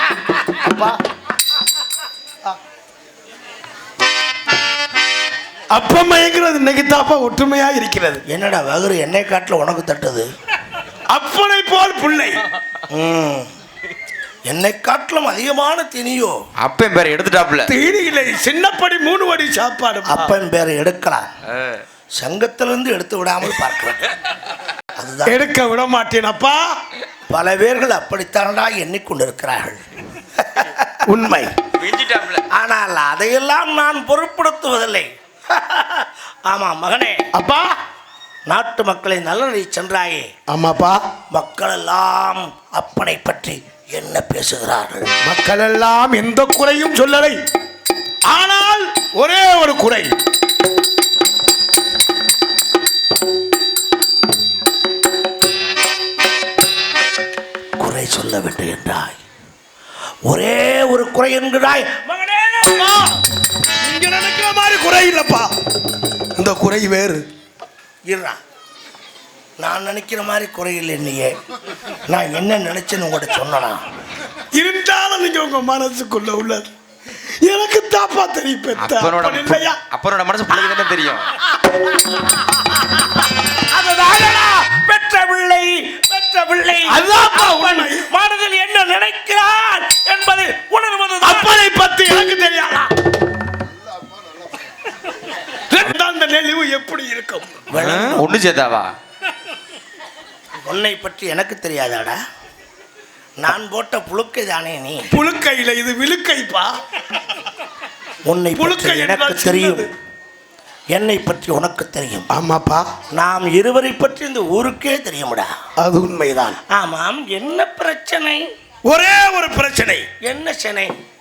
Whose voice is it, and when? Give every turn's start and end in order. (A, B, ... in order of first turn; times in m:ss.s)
0:00.5-0:01.0 A
0:05.7-0:08.2 A
0:08.3-0:10.3 B
0:11.1-0:12.4 A
0:12.9-0:13.5 B
0:14.5-0:16.4 B
0:16.6-0:17.7 C
0:17.7-0:20.3 A
0:20.1-0:21.3 B
0:21.6-0:21.8 C
0:22.2-0:24.1 B
0:25.0-0:25.4 B
0:25.3-0:26.8 A
0:27.3-0:29.8 B
0:30.4-0:30.9 B
0:31.1-0:31.5 A
0:31.8-0:32.4 C
0:32.5-0:37.2 B
0:37.4-0:37.8 A
0:38.5-0:40.3 B
0:40.5-0:41.0 A
0:41.3-0:45.1 B
0:45.2-0:47.4 A
0:48.3-0:50.1 A
0:57.8-0:59.2 B
1:00.3-1:03.2 B
1:03.8-1:05.5 A
1:06.4-1:07.2 A
1:08.1-1:08.4 B
1:09.6-1:11.3 B
1:12.1-1:13.8 B
1:14.5-1:16.7 A
1:17.4-1:19.8 A
1:18.8-1:21.3 C
1:22.0-1:31.5 B
1:26.9-1:28.0 A
1:31.2-1:32.9 A
1:35.6-1:37.6 A
1:37.7-1:38.2 B
1:37.8-1:38.9 C
1:40.6-1:42.2 B
1:43.4-1:45.1 B
1:45.1-1:46.8 A
1:48.2-1:49.9 B
1:48.6-1:49.9 A
1:51.0-1:52.3 B
1:52.3-1:52.9 A
1:53.1-1:55.5 B
1:55.8-1:56.6 A
1:56.7-1:58.5 B
1:58.8-2:00.0 A
2:00.2-2:00.9 B